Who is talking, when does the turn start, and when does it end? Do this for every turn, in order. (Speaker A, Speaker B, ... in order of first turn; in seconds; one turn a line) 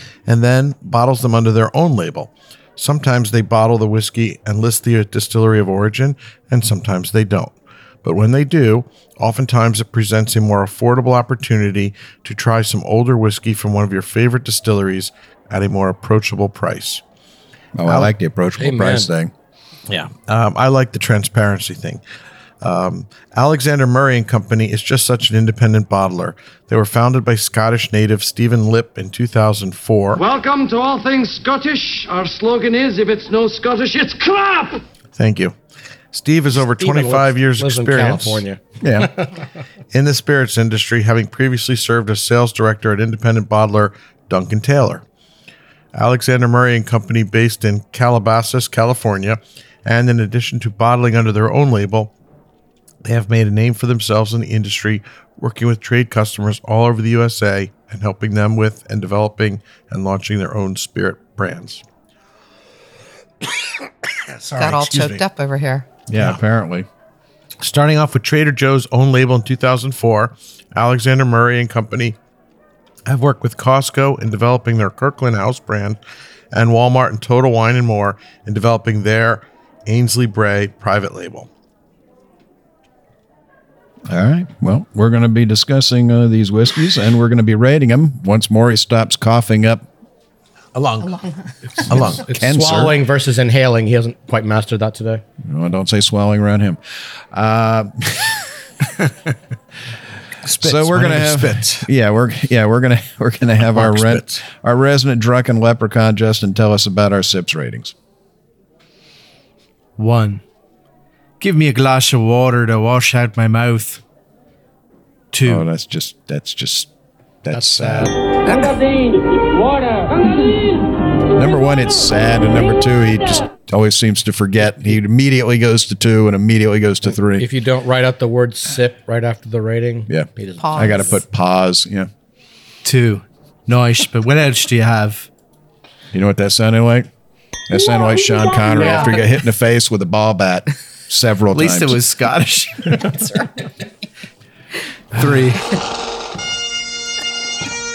Speaker A: 0.3-17.0
Speaker B: 17.8-19.3
Speaker C: 18.6-19.1
Speaker A: 20.1-22.0
Speaker A: 22.6-30.2
Speaker D: 30.1-34.8
Speaker A: 35.1-35.5
Speaker A: 36.1-38.4
Speaker C: 36.8-39.3
Speaker B: 38.8-39.1
Speaker A: 39.9-45.0
Speaker A: 45.9-52.1
Speaker A: 53.0-61.8
Speaker A: 64.2-65.2
Speaker E: 64.6-65.9
Speaker B: 66.1-66.9
Speaker A: 67.6-72.2
Speaker A: 73.0-76.0
Speaker A: 76.5-81.5
Speaker B: 84.1-89.8
Speaker A: 90.8-91.0
Speaker E: 91.0-91.5
Speaker B: 91.8-93.0
Speaker A: 91.9-92.2
Speaker C: 92.0-95.2
Speaker B: 95.4-98.5
Speaker A: 100.4-101.9
Speaker B: 100.6-107.9
Speaker A: 103.7-104.4
Speaker F: 110.0-110.4
Speaker F: 111.4-114.0
Speaker F: 115.3-115.6
Speaker B: 115.4-116.9
Speaker B: 117.4-118.1
Speaker C: 117.5-118.2
Speaker B: 121.3-127.5
Speaker C: 127.4-131.2
Speaker B: 130.1-132.1
Speaker E: 130.6-131.2
Speaker F: 132.8-135.3
Speaker B: 136.1-137.1
Speaker B: 137.7-142.0
Speaker F: 141.5-143.4
Speaker F: 145.1-145.8